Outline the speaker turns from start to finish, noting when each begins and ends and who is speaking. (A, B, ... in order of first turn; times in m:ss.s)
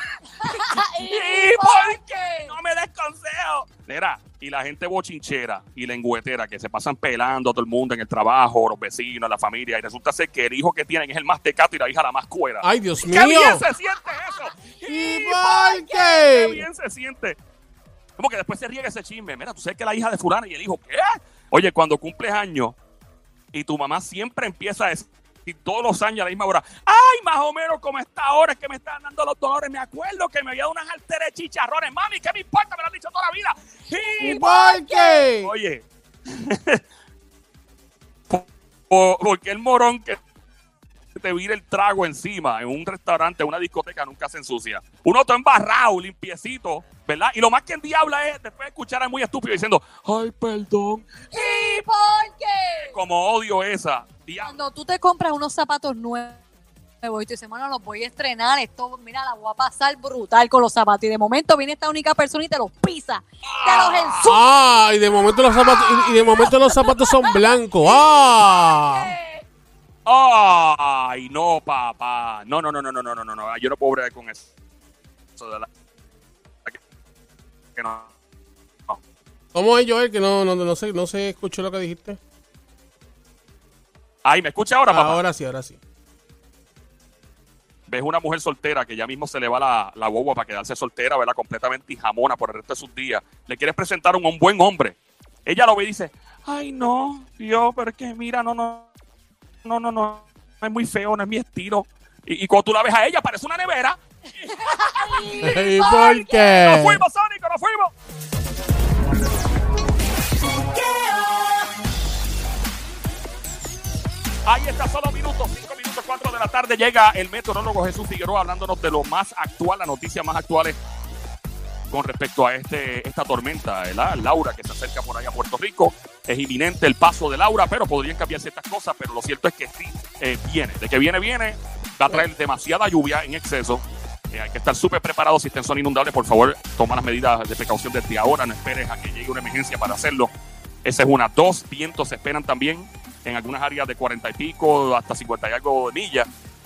0:00.4-0:02.5 A
0:00.4-0:15.5 B
0:12.6-0:13.6 C
0:14.6-0:16.1 A
0:14.9-0:16.6 C
0:16.1-0:17.4 B
0:18.2-0:22.8 B
0:23.5-0:34.4 B
0:34.2-0:35.3 A
0:34.2-0:35.5 C
0:35.4-0:36.8 B
0:38.3-0:40.2 B
0:41.2-0:51.1 B
0:51.3-0:52.9 A
0:52.8-0:54.6 B
0:54.4-0:56.4 A
0:57.0-1:09.4 A
1:03.4-1:04.3 B
1:04.2-1:09.1 C
1:10.0-1:14.5 B
1:15.4-1:15.7 B
1:17.8-1:18.1 B
1:19.5-1:22.2 C
1:24.2-1:25.2 B
1:24.9-1:25.8 C
1:27.9-1:38.9 B
1:39.6-1:47.9 B
1:44.5-1:46.8 A
1:45.4-1:47.0 C
1:54.4-2:00.8 B
2:01.9-2:20.3 B
2:20.8-2:26.3 B